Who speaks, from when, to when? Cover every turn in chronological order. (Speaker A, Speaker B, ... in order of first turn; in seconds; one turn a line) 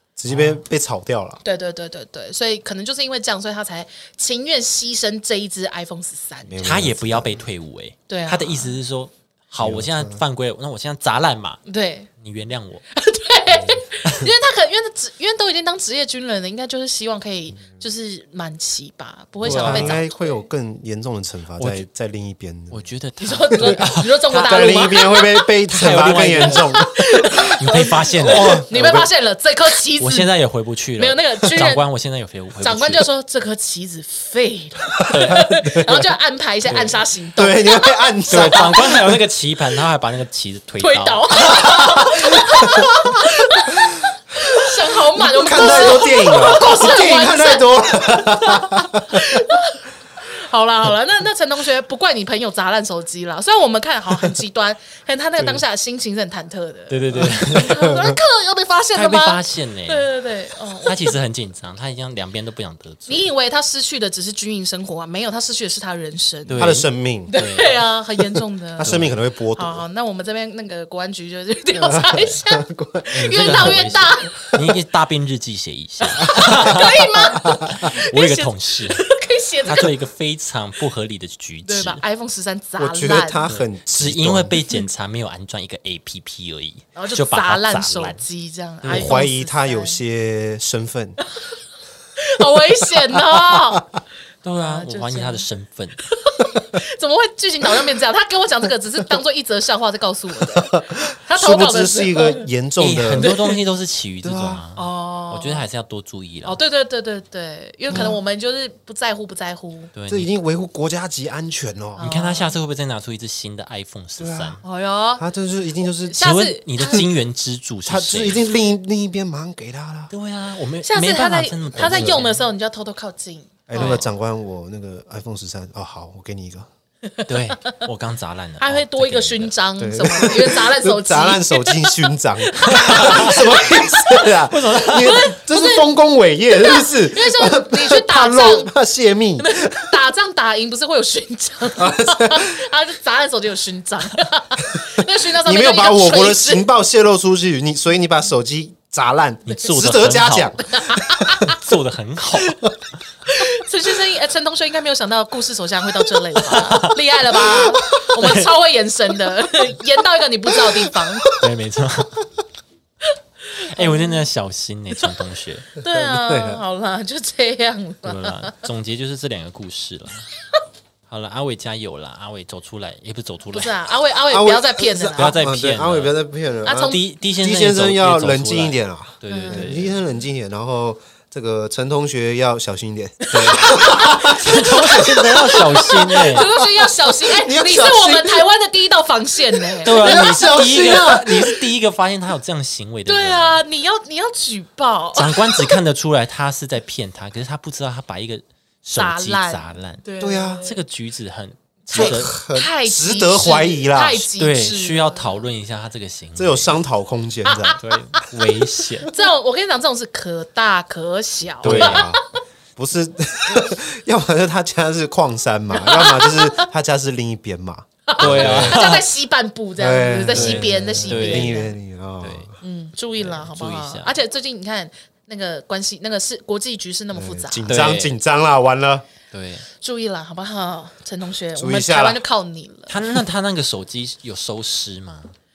Speaker A: 0.2-1.4
Speaker B: 0.3-0.6
Speaker C: 1.4-6.7
Speaker A: 6.5-7.4
Speaker B: 6.6-11.6
Speaker C: 8.1-8.8
Speaker A: 9.6-10.2
Speaker C: 11.7-12.1
Speaker B: 12.2-12.8
Speaker C: 12.9-20.5
Speaker A: 19.4-22.9
Speaker B: 19.4-20.0
Speaker B: 21.6-21.9
Speaker B: 22.7-25.1
Speaker C: 23.2-25.5
Speaker A: 23.6-27.6
Speaker B: 25.7-26.8
Speaker C: 26.4-30.4
Speaker B: 27.5-28.6
Speaker A: 28.2-29.1
Speaker B: 30.0-33.1
Speaker C: 31.0-31.9
Speaker C: 32.6-39.0
Speaker A: 35.0-36.1
Speaker B: 35.1-35.5
Speaker B: 36.7-37.0
Speaker A: 37.4-39.2
Speaker B: 38.3-41.8
Speaker C: 40.8-61.2
Speaker A: 41.6-42.9
Speaker A: 45.1-49.4
Speaker B: 56.9-57.9
Speaker A: 57.1-58.2
Speaker B: 58.9-60.1
Speaker B: 60.8-63.3
Speaker C: 63.1-66.7
Speaker B: 66.5-67.9
Speaker A: 66.6-67.3
Speaker C: 67.3-74.4
Speaker A: 68.8-69.8
Speaker B: 68.8-69.2
Speaker A: 71.8-74.0
Speaker B: 73.1-79.1
Speaker C: 76.1-79.9
Speaker A: 76.3-76.9
Speaker B: 79.6-82.0
Speaker C: 81.7-83.5
Speaker A: 82.8-84.5
Speaker B: 83.4-88.2
Speaker C: 87.0-90.0
Speaker B: 88.8-89.1
Speaker A: 88.8-91.2
Speaker C: 92.2-93.9
Speaker A: 93.1-93.8
Speaker B: 94.4-96.1
Speaker C: 94.6-95.5
Speaker C: 96.1-102.5
Speaker A: 100.4-103.3
Speaker B: 102.8-106.6
Speaker C: 103.2-103.6
Speaker A: 104.2-104.6
Speaker C: 104.8-105.7
Speaker C: 106.5-109.9
Speaker A: 107.9-108.2
Speaker B: 109.9-110.3
Speaker A: 110.1-112.0
Speaker C: 112.0-112.5
Speaker B: 112.0-114.6
Speaker A: 114.2-114.6
Speaker C: 114.6-115.2
Speaker A: 115.2-116.2
Speaker C: 116.0-117.1
Speaker B: 116.2-118.5
Speaker A: 117.9-120.1
Speaker B: 120.1-122.4
Speaker C: 120.8-124.0
Speaker A: 121.8-122.2
Speaker A: 123.7-126.7
Speaker B: 123.8-124.1
Speaker B: 127.3-129.5
Speaker C: 128.6-134.3
Speaker A: 129.8-140.0
Speaker B: 132.7-133.5
Speaker B: 134.3-135.3
Speaker C: 135.0-135.9
Speaker C: 136.5-138.7
Speaker C: 139.4-146.7
Speaker A: 141.8-142.5
Speaker A: 145.4-151.3
Speaker B: 149.5-150.7
Speaker C: 150.7-151.6
Speaker B: 151.4-152.6
Speaker C: 152.4-152.7
Speaker C: 153.3-161.3
Speaker B: 156.4-157.4
Speaker B: 157.9-158.5
Speaker A: 160.6-161.5
Speaker B: 161.3-162.2
Speaker C: 163.6-164.2
Speaker B: 163.7-165.7
Speaker C: 165.8-168.6
Speaker A: 165.8-166.6
Speaker B: 168.0-170.3
Speaker B: 171.1-173.8
Speaker C: 173.5-175.4
Speaker A: 174.3-185.6
Speaker B: 175.2-176.1
Speaker C: 176.6-177.0
Speaker B: 176.7-180.0
Speaker C: 179.3-179.9
Speaker C: 183.2-191.6
Speaker B: 183.3-186.5
Speaker A: 186.1-188.5
Speaker A: 189.6-191.6
Speaker B: 189.8-193.6
Speaker C: 193.1-195.8
Speaker B: 195.2-200.0
Speaker C: 199.0-200.8
Speaker A: 200.2-200.7
Speaker B: 200.6-202.3
Speaker C: 201.9-205.5
Speaker A: 201.9-204.3
Speaker B: 204.4-206.8
Speaker A: 206.4-208.3
Speaker C: 207.5-208.2
Speaker B: 207.8-209.1
Speaker C: 209.1-212.1
Speaker B: 211.6-212.2
Speaker A: 211.6-212.2
Speaker A: 212.8-218.9
Speaker C: 215.7-216.7
Speaker C: 218.1-221.8
Speaker B: 218.2-219.1
Speaker A: 219.8-222.5
Speaker B: 220.3-221.6
Speaker B: 222.2-222.6
Speaker C: 222.6-227.8
Speaker B: 223.2-224.1
Speaker A: 227.1-229.1
Speaker B: 227.7-228.2
Speaker B: 229.3-229.7
Speaker C: 229.7-233.0
Speaker A: 231.6-232.2
Speaker B: 232.9-235.3